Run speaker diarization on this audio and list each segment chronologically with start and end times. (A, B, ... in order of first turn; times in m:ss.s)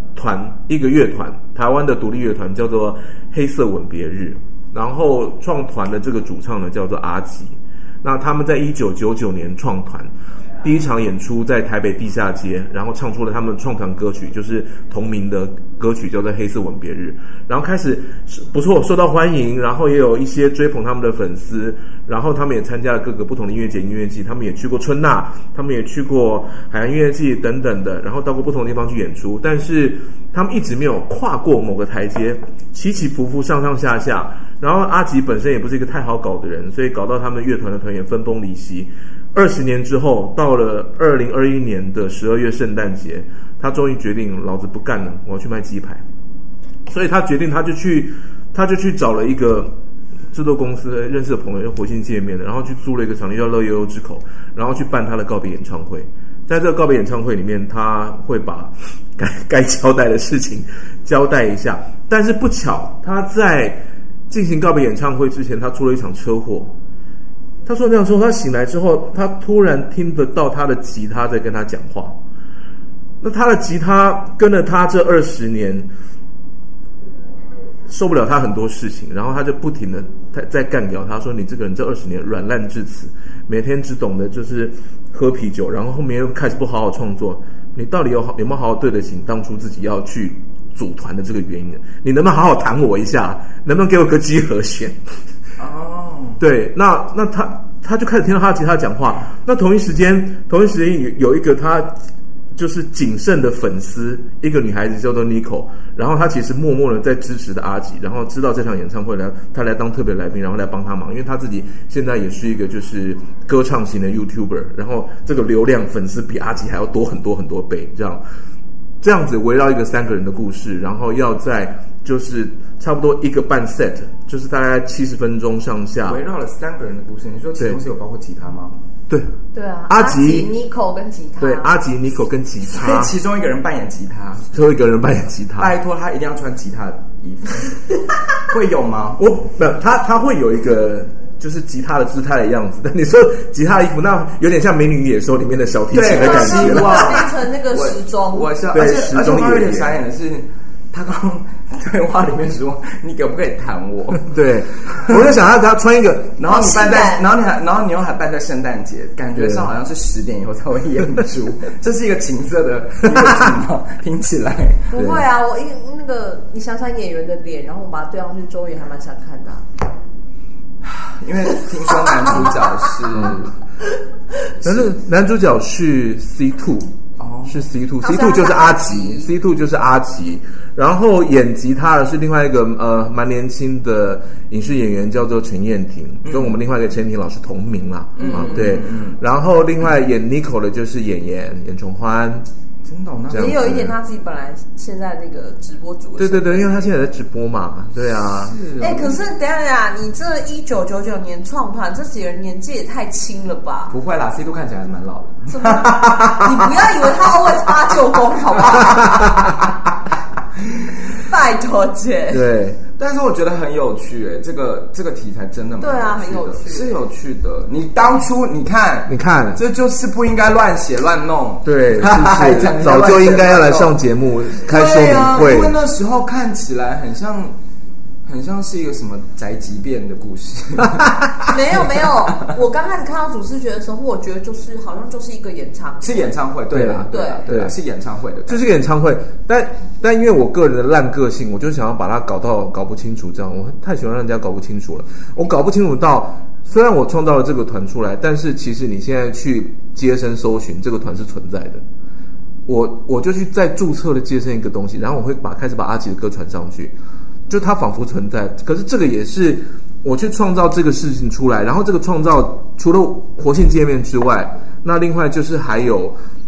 0:00.1-0:10.1 A
0:10.6-0:46.0 A
0:46.8-0:49.7 A
0:50.3-1:06.7 A
1:07.6-1:12.2 A
1:13.2-1:15.9 A
1:17.9-1:35.0 A
1:35.6-1:36.4 B
1:36.4-1:42.0 A
1:42.5-1:58.2 A
1:59.0-2:06.2 A
2:06.0-2:08.8 B
2:09.5-2:11.8 C
2:09.9-2:10.5 A
2:11.4-2:13.1 A
2:12.7-2:14.5 B
2:14.5-2:15.8 A
2:15.6-2:19.2 B
2:19.2-2:27.2 A
2:25.9-2:34.4 B
2:26.1-2:28.5 C
2:28.7-2:30.0 A
2:34.3-2:36.4 A
2:34.9-2:35.2 B
2:36.4-2:44.9 B
2:36.5-2:37.2 C
2:39.3-2:39.7 A
2:44.9-2:49.6 C
2:44.9-2:45.2 A
2:50.8-2:53.5 B
2:51.9-2:52.9 C
2:54.6-2:56.9 A
2:57.2-2:57.7 B
2:57.4-3:12.5 A
2:58.0-2:59.3 C
3:06.2-3:06.6 B
3:08.2-3:09.2 B
3:08.2-3:08.6 C
3:12.8-3:13.7 B
3:13.3-3:13.9 A
3:13.3-3:16.8 C
3:16.2-3:18.6 A
3:18.2-3:19.2 B
3:18.8-3:24.0 C
3:23.9-3:26.7 B
3:25.5-3:29.4 C
3:28.9-3:29.5 A
3:31.2-3:32.4 C
3:32.3-3:32.8 A
3:33.0-3:44.0 B
3:35.8-3:37.0 C
3:39.1-3:39.6 A
3:41.6-3:45.8 A
3:44.6-3:47.5 B
3:48.2-3:51.1 B
3:50.8-3:51.3 A
3:51.5-3:56.3 C
3:52.3-3:52.5 B
3:56.0-3:58.7 B
3:56.7-3:57.7 A
3:57.1-3:57.5 C
3:58.5-4:11.8 A
4:12.7-4:16.9 A
4:17.5-4:26.2 A